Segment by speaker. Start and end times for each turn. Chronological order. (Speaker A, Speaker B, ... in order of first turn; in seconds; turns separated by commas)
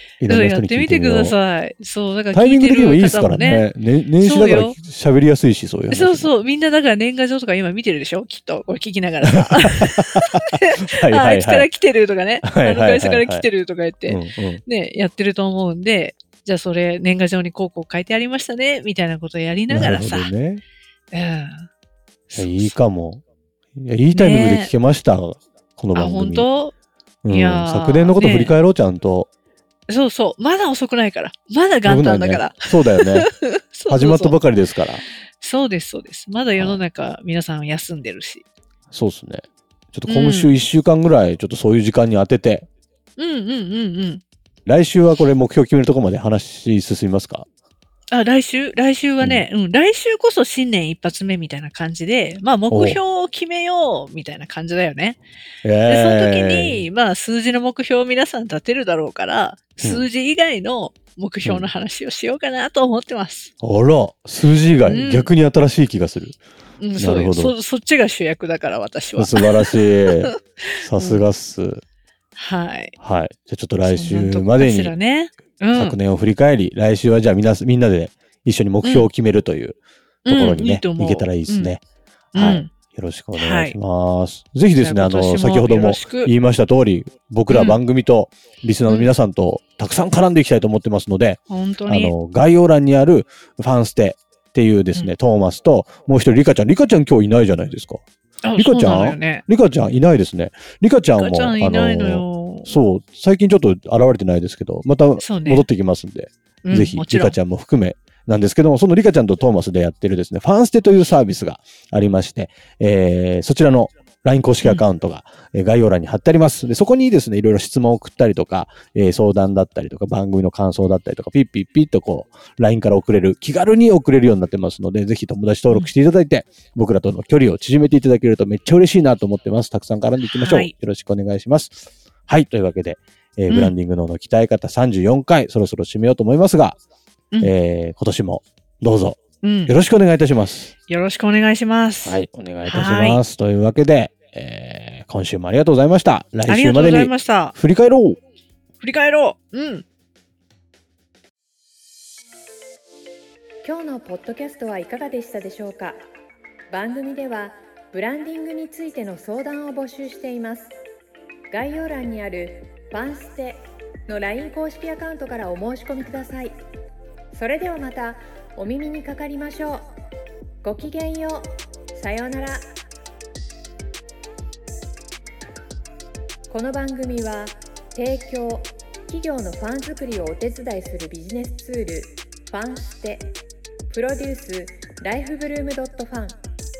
Speaker A: 0.2-1.4, Speaker B: 0.3-3.7, Speaker A: 2.3-6.3, Speaker B: 4.2-4.8, Speaker B: 5.9-20.3, Speaker A: 9.2-11.7, Speaker A: 12.4-13.4, Speaker A: 14.1-14.6, Speaker A: 19.7-20.6, Speaker B: 21.1-21.7, Speaker B: 22.3-22.8, Speaker A: 22.3-23.2, Speaker A: 23.8-26.5, Speaker B: 24.1-24.7, Speaker B: 25.9-26.7, Speaker A: 27.2-29.3, Speaker B: 27.3-28.6, Speaker B: 29.9-34.4, Speaker A: 31.8-33.3, Speaker A: 33.9-35.0, Speaker B: 35.4-38.4, Speaker A: 36.5-36.8, Speaker A: 38.9-42.7, Speaker B: 40.1-40.6, Speaker B: 43.2-44.2, Speaker A: 44.6-47.5, Speaker B: 48.1-55.2, Speaker A: 52.7-53.0, Speaker A: 55.6-56.8, Speaker B: 55.9-63.5, Speaker A: 59.8-60.0, Speaker A: 61.4-61.7, Speaker A: 63.6-66.4, Speaker B: 64.8-65.3, Speaker B: 66.8-70.4, Speaker A: 67.0-67.5, Speaker A: 69.2-71.8, Speaker B: 71.0-71.2, Speaker B: 72.3-72.9, Speaker A: 73.0-74.9, Speaker B: 73.8-76.0, Speaker A: 75.7-81.8, Speaker B: 80.2-81.7, Speaker B: 82.3-82.7, Speaker A: 82.3-98.0, Speaker B: 83.3-83.8, Speaker B: 84.8-86.3, Speaker B: 87.5-87.8, Speaker B: 91.5-92.1, Speaker B: 98.4-99.4, Speaker A: 98.6-136.8, Speaker B: 101.1-102.7, Speaker B: 105.2-105.7, Speaker B: 106.6-107.4, Speaker B: 130.2-130.7, Speaker B: 133.5-133.7, Speaker A: 137.4-140.7, Speaker B: 139.4-139.7, Speaker B: 140.9-143.2, Speaker A: 142.0-148.2, Speaker B: 146.5-147.5, Speaker B: 148.8-149.8, Speaker C: 153.6-156.0, Speaker C: 156.7-160.8, Speaker C: 161.5-166.6, Speaker C: 167.3-169.9, Speaker C: 170.6-172.6, Speaker C: 176.5-183.3, Speaker C: 183.9-186.4